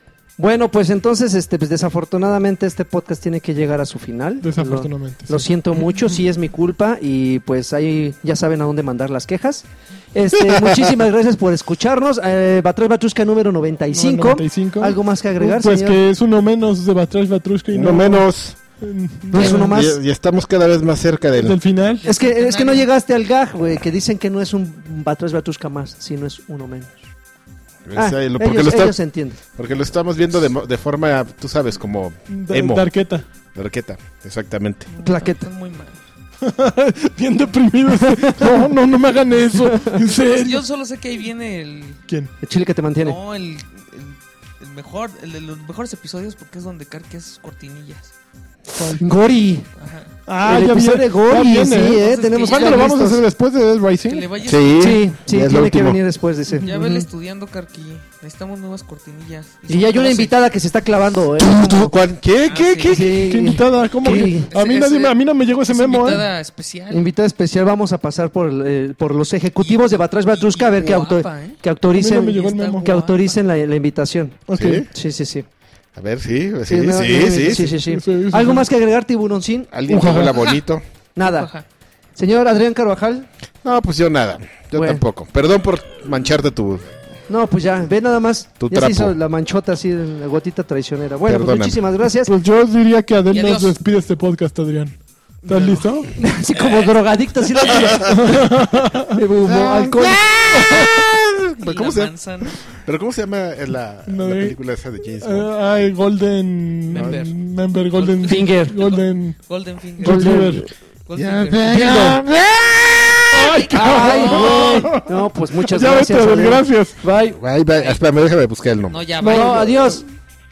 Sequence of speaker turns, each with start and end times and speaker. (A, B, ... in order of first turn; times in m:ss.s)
0:00.4-0:16.0 A
0:04.4-0:05.4 B
0:13.9-0:18.3 B
0:17.7-0:18.6 C
0:18.8-0:19.8 B
0:19.3-0:20.0 A
0:19.3-0:21.6 C
0:21.4-0:22.0 B
0:22.0-0:22.9 D
0:22.0-0:27.1 A
0:27.8-0:29.0 C
0:27.9-0:29.4 A
0:29.5-0:32.9 C
0:32.3-0:33.2 B
0:33.5-0:34.9 C
0:34.9-0:36.0 D
0:35.0-0:35.5 A
0:36.4-0:40.6 B
0:37.9-0:38.6 A
0:39.6-0:40.0 A
0:40.0-0:42.0 D
0:42.4-0:43.2 A
0:43.0-0:48.1 D
0:48.7-0:49.0 B
0:49.0-0:49.7 A
0:49.8-0:50.1 D
0:50.3-0:54.3 B
0:50.4-0:53.2 A
0:51.9-0:53.0 D
0:54.0-0:55.0 D
0:54.4-0:56.0 C
0:54.8-0:57.1 A
0:56.6-1:00.4 D
0:59.7-1:02.0 A
1:01.4-1:03.2 C
1:02.4-1:03.0 D
1:02.9-1:04.5 A
1:03.1-1:06.2 B
1:04.0-1:07.1 D
1:06.9-1:15.4 A
1:09.6-1:11.6 D
1:11.9-1:12.8 B
1:12.2-1:13.4 D
1:14.5-1:14.8 B
1:14.5-1:14.9 C
1:15.9-1:17.8 C
1:16.7-1:19.7 A
1:17.8-1:18.7 B
1:19.7-1:20.8 C
1:19.9-1:20.5 B
1:20.3-1:20.6 D
1:21.1-1:21.5 A
1:21.2-1:21.6 D
1:22.2-1:23.3 A
1:23.6-1:26.8 C
1:24.7-1:25.0 A
1:27.3-1:32.3 A
1:28.6-1:29.1 C
1:31.3-1:31.8 C
1:32.3-1:36.1 B
1:33.3-1:33.8 D
1:35.4-1:37.0 D
1:36.1-1:38.3 A
1:37.6-1:38.1 D
1:37.8-1:38.2 C
1:38.0-1:39.2 B
1:39.1-1:40.9 A
1:39.4-1:45.5 C
1:41.6-1:42.6 D
1:44.1-1:44.6 B
1:45.2-1:49.4 B
1:46.9-1:47.4 D
1:46.9-1:47.2 C
1:47.9-1:50.3 D
1:48.3-1:48.7 A
1:50.0-1:50.7 B
1:50.0-1:50.7 A
1:51.0-1:52.1 D
1:51.2-1:53.6 C
1:51.6-1:52.2 A
1:53.3-1:57.0 B
1:53.3-1:55.0 D
1:53.8-1:57.4 A
1:57.3-1:59.0 C
1:58.9-2:00.0 D
1:59.2-2:00.0 A
1:59.2-1:59.7 B